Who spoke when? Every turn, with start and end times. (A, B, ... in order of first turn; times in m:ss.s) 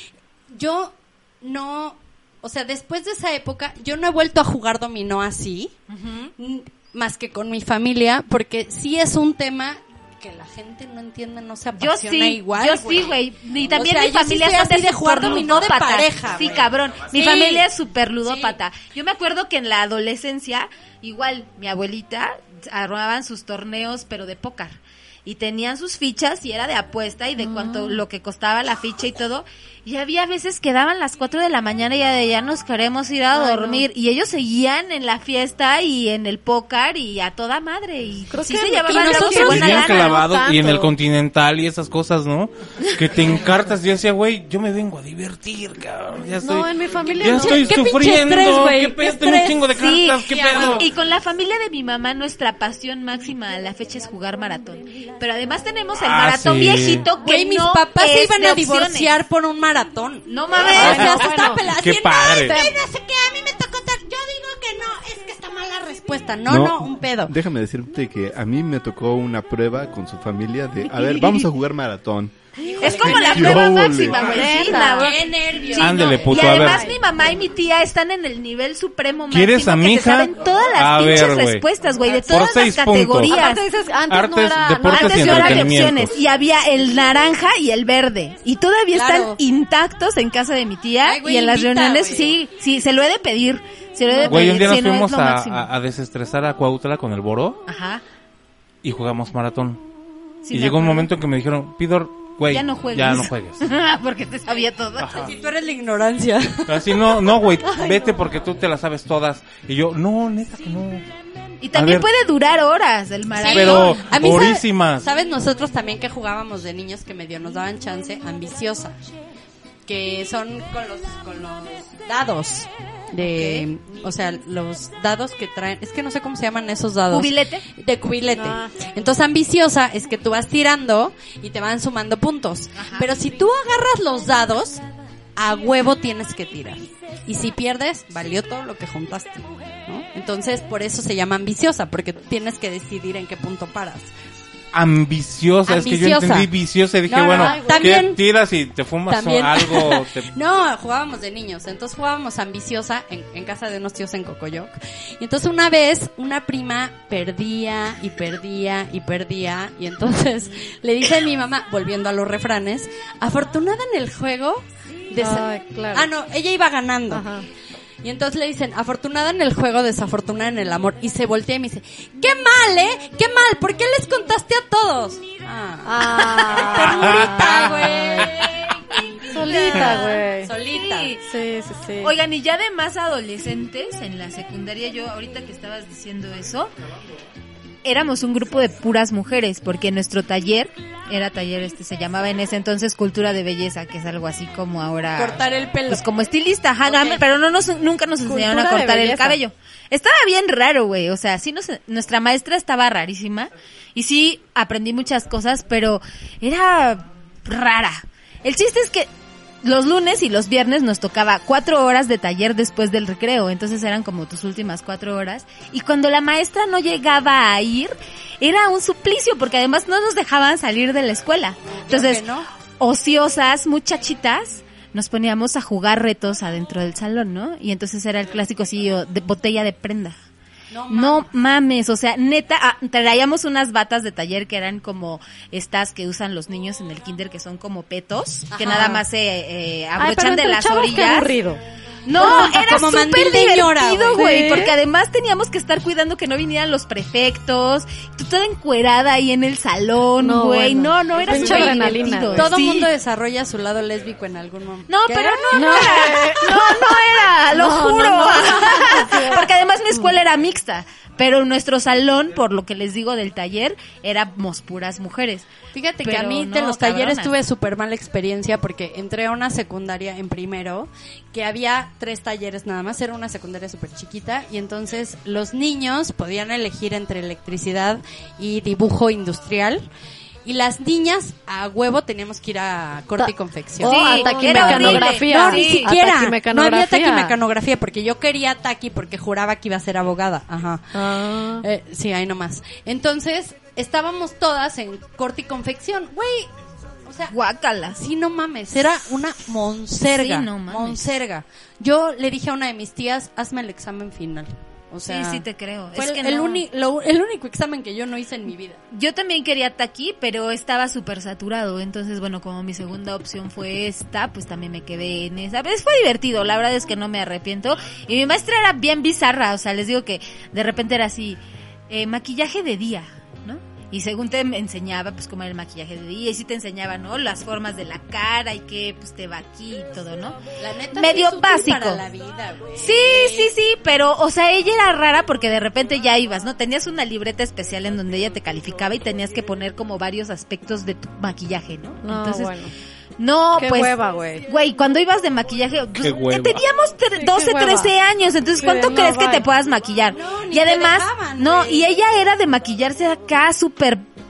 0:00.5-0:05.7 A
0:05.9-0:06.3 B
0:06.4-0:13.2 A
0:11.8-0:40.2 B
0:13.7-0:17.7 A
0:18.2-0:18.6 A
0:27.4-0:28.0 C
0:33.3-0:33.8 C
0:38.3-0:40.9 C
0:38.9-0:39.8 A
0:39.4-0:50.8 D
0:46.4-0:47.8 C
0:47.1-0:49.7 A
0:49.8-0:59.1 B
0:50.3-0:50.8 A
0:56.0-0:57.1 D
0:57.2-1:07.3 A
1:00.3-1:01.3 B
1:00.7-1:01.6 C
1:00.8-1:02.6 D
1:02.4-1:02.8 C
1:06.5-1:12.3 E
1:10.9-1:11.5 B
1:12.6-1:13.8 A
1:12.8-1:23.6 B
1:12.9-1:14.5 E
1:14.2-1:15.2 C
1:14.3-1:16.4 A
1:15.7-1:16.9 D
1:16.4-1:17.0 C
1:19.3-1:21.7 D
1:22.2-1:23.4 D
1:23.3-1:25.9 C
1:24.1-1:26.2 D
1:24.9-1:35.7 B
1:28.9-1:29.4 A
1:31.0-1:32.3 A
1:34.1-1:34.6 C
1:34.3-1:37.6 D
1:37.7-1:38.0 B
1:38.8-1:39.8 D
1:40.4-1:41.1 B
1:40.5-1:43.6 D
1:42.5-1:45.3 B
1:45.0-1:45.3 D
1:45.2-1:47.2 A
1:46.7-1:51.0 D
1:47.6-1:48.1 C
1:51.6-1:54.0 B
1:51.7-1:52.1 D
1:53.4-1:59.0 A
1:53.5-1:55.1 D
1:59.9-2:14.8 A
2:03.2-2:03.7 B
2:07.1-2:07.6 B
2:08.3-2:08.8 C
2:12.8-2:13.1 B
2:15.4-2:24.1 A
2:24.7-2:30.3 D
2:25.7-2:26.5 A
2:27.1-2:28.2 A
2:27.3-2:28.0 C
2:29.1-2:47.3 A
2:45.2-2:46.1 C
2:47.1-2:47.4 C
2:48.0-3:01.1 A
2:55.8-2:58.2 C
2:57.0-2:57.7 D
2:59.3-3:00.5 C
2:59.4-3:01.2 B
3:01.2-3:02.1 C
3:02.0-3:06.7 B
3:07.8-3:29.1 B
3:15.2-3:16.0 A
3:16.8-3:17.2 A
3:18.2-3:19.4 C
3:29.6-3:42.3 B
3:41.7-3:42.5 A
3:42.8-3:50.2 B
3:50.7-3:51.3 A
3:50.9-4:01.3 B
3:58.5-3:59.0 A
4:00.0-4:01.6 C
4:02.1-4:12.9 B
4:02.2-4:04.3 A
4:02.2-4:02.6 C
4:04.2-4:04.7 C
4:10.2-4:12.5 C
4:11.3-4:16.2 A
4:14.9-4:25.5 B
4:15.5-4:19.5 C
4:25.7-4:39.8 A
4:26.0-4:27.3 B
4:40.4-4:56.5 A
4:43.2-4:47.4 C
4:43.8-4:45.9 B
4:50.9-4:51.6 C
4:57.1-4:57.4 A
4:57.3-4:58.0 B
4:58.0-5:08.8 A
5:00.1-5:01.2 B
5:05.1-5:06.6 B
5:08.9-5:30.4 B
5:30.6-5:33.5 A
5:30.9-5:32.0 B
5:32.8-5:42.6 B
5:42.0-5:42.7 C
5:43.2-5:54.1 B
5:43.6-5:44.4 C
5:46.0-5:46.6 D
5:47.2-5:47.9 C
5:48.6-5:49.5 C
5:50.1-5:51.9 A